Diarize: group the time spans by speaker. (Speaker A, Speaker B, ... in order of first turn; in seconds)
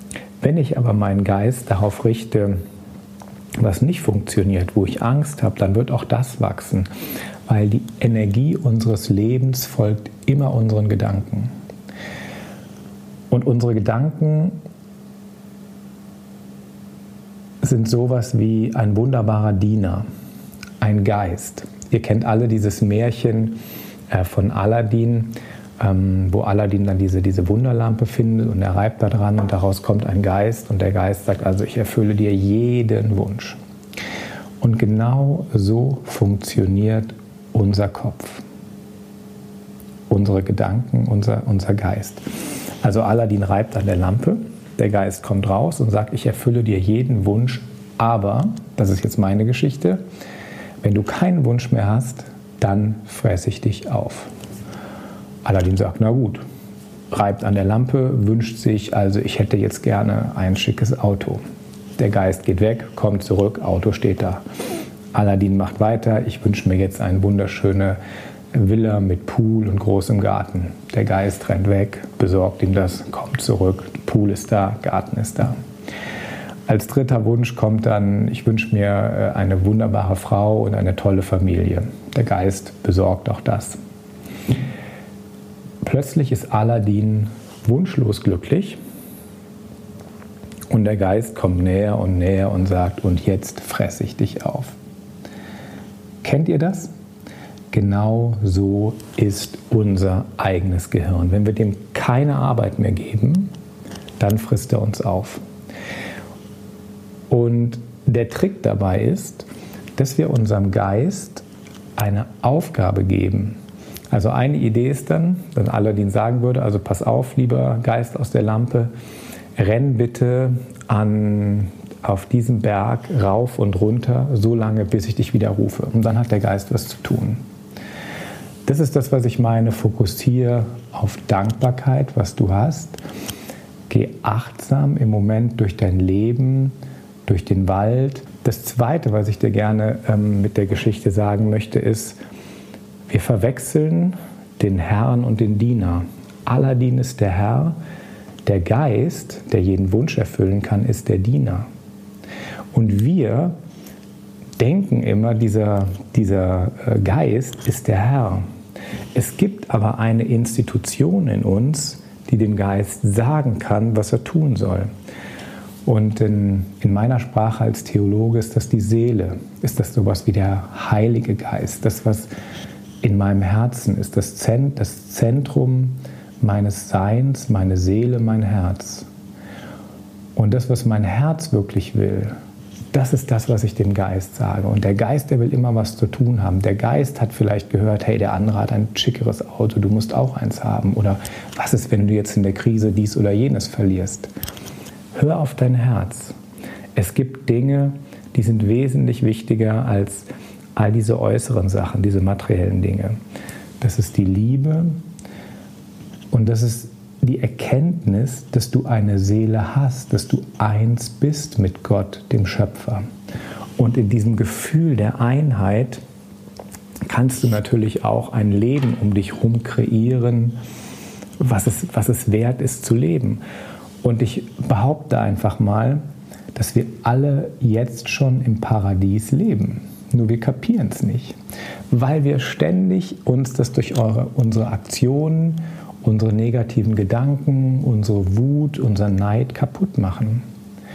Speaker A: 0.4-2.6, 3.6-6.9, 7.5-11.5, 13.3-14.6, 17.6-20.1, 20.8-23.6, 24.1-33.6, 34.6-38.4, 40.1-42.2, 42.8-50.0, 50.8-54.3, 55.5-56.4, 57.1-61.4, 62.0-64.4, 65.1-68.0, 68.5-75.6, 76.7-83.8, 85.8-88.8, 90.7-94.8, 96.2-96.9, 97.7-103.5, 104.2-105.4, 107.3-111.5, 112.0-113.6, 114.1-118.9, 119.6-127.4, 128.7-133.0, 133.9-142.2, 143.1-147.8, 148.4-151.7, 152.7-153.6, 154.6-158.4, 159.2-164.9, 165.8-172.3, 173.0-179.1, 180.4-182.4, 182.9-194.3, 195.1-196.4, 196.9-203.2, 203.8-205.0, 206.3-213.1, 213.8-216.0, 217.1-220.6, 221.4-223.4, 224.0-226.0, 226.5-231.4, 231.9-240.4